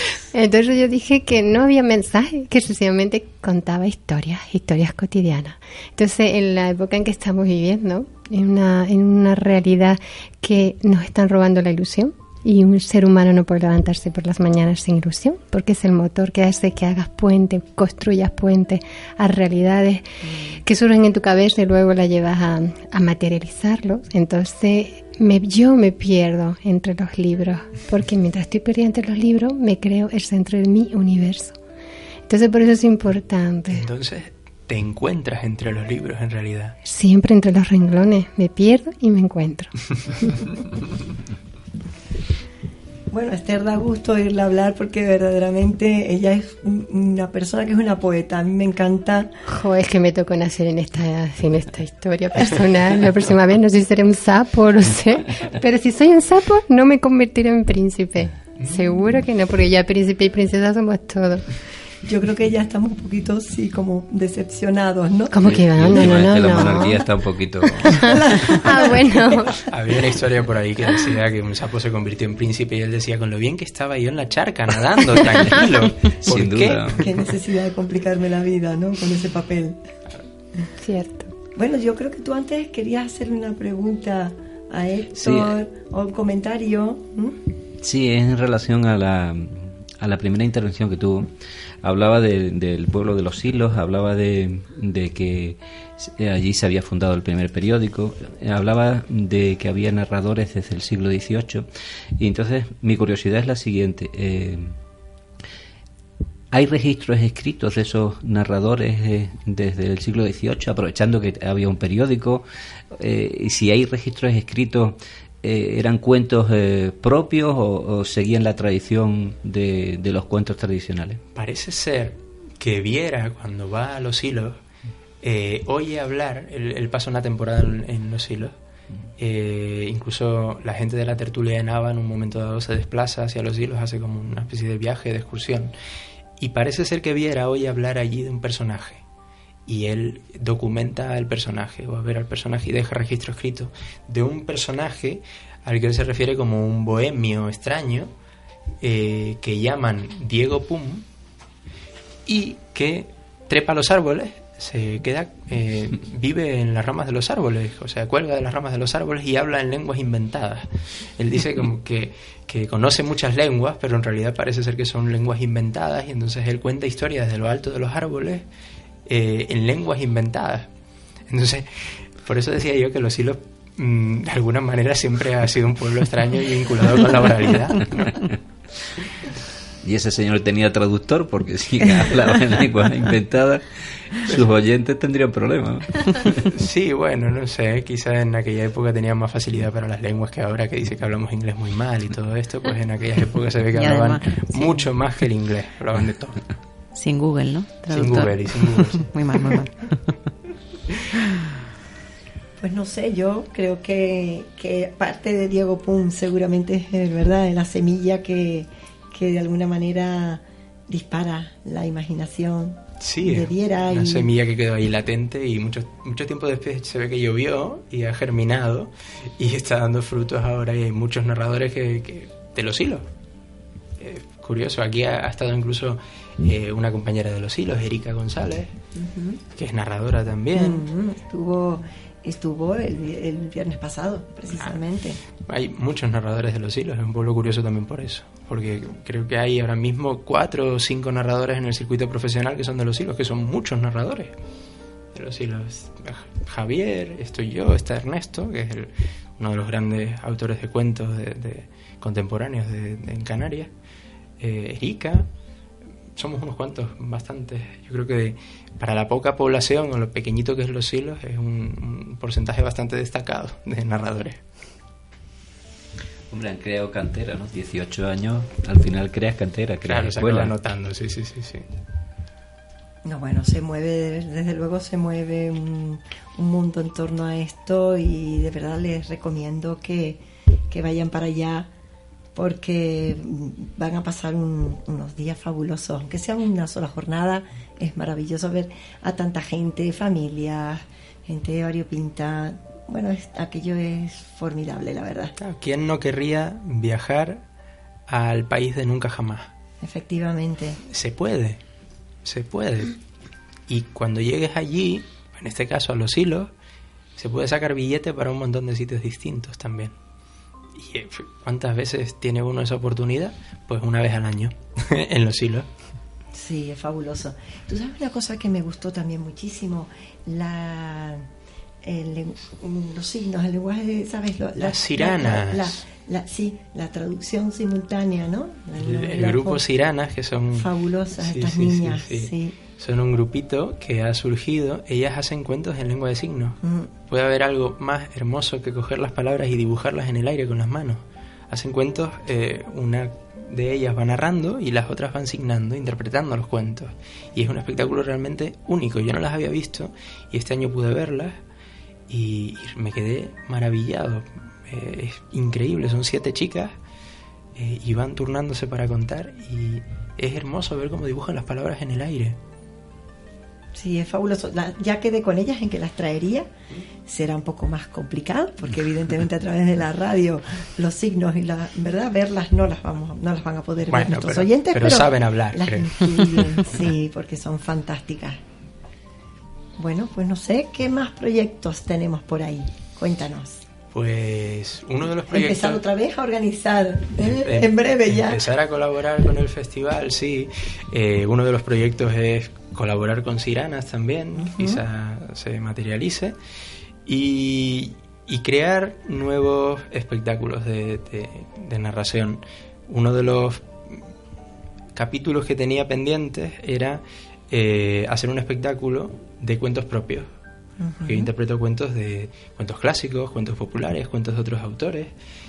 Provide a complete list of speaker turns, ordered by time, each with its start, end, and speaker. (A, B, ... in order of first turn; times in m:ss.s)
0:00.3-0:20.0 A
0:20.2-0:20.6 B
0:20.6-0:31.6 A
0:32.3-0:33.9 A
0:33.7-0:36.8 C
0:36.8-0:40.4 A
0:43.1-0:49.3 B
0:49.5-1:01.4 A
1:02.0-1:06.8 B
1:05.3-1:07.0 A
1:05.4-1:08.6 D
1:07.8-1:09.6 A
1:08.0-1:09.1 B
1:09.6-1:17.1 C
1:16.2-1:17.2 D
1:16.9-1:19.8 B
1:20.8-1:21.3 A
1:21.5-1:27.4 B
1:25.2-1:25.5 D
1:27.8-1:31.3 D
1:31.8-1:41.6 D
1:42.2-1:44.7 D
1:46.5-2:01.2 D
2:01.3-2:04.6 C
2:05.2-2:08.5 C
2:09.2-2:15.7 C
2:16.4-2:19.0 C
2:19.7-2:28.1 C
2:28.8-2:31.0 C
2:32.2-2:48.4 C
2:49.0-2:50.7 C
2:51.3-2:58.2 C
2:59.8-3:06.5 D
3:06.5-3:16.4 C
3:13.7-3:14.9 E
3:16.9-3:20.2 E
3:17.9-3:19.6 C
3:22.6-3:34.3 B
3:33.0-3:43.1 C
3:44.0-3:48.7 C
3:48.9-3:49.4 B
3:49.6-3:50.8 C
3:50.5-3:55.2 B
3:55.5-4:04.3 C
4:05.1-4:13.7 C
4:14.4-4:15.2 C
4:16.2-4:24.4 C
4:26.3-4:30.5 D
4:29.8-4:31.6 C
4:33.0-4:41.7 B
4:42.3-4:55.3 B
4:55.4-4:57.4 C
4:58.1-4:59.5 C
4:59.8-5:00.8 B
5:00.9-5:01.6 C
5:02.2-5:03.0 C
5:03.7-5:06.5 C
5:07.2-5:09.9 C
5:10.8-5:15.7 C
5:16.3-5:21.3 B
5:21.8-5:29.6 B
5:24.6-5:25.8 C
5:28.8-5:51.4 C
5:30.5-5:32.6 B
5:36.6-5:36.9 B
5:52.1-5:56.7 C
5:57.6-6:02.4 C
6:03.7-6:06.5 B
6:07.0-6:18.4 B
6:13.9-6:16.8 C
6:19.8-6:23.6 B
6:23.9-6:25.8 C
6:25.3-6:28.4 B
6:27.2-6:36.4 C
6:34.3-6:34.8 B
6:37.0-6:44.0 C
6:44.9-6:50.3 C
6:50.8-6:51.3 B
6:51.0-6:55.1 C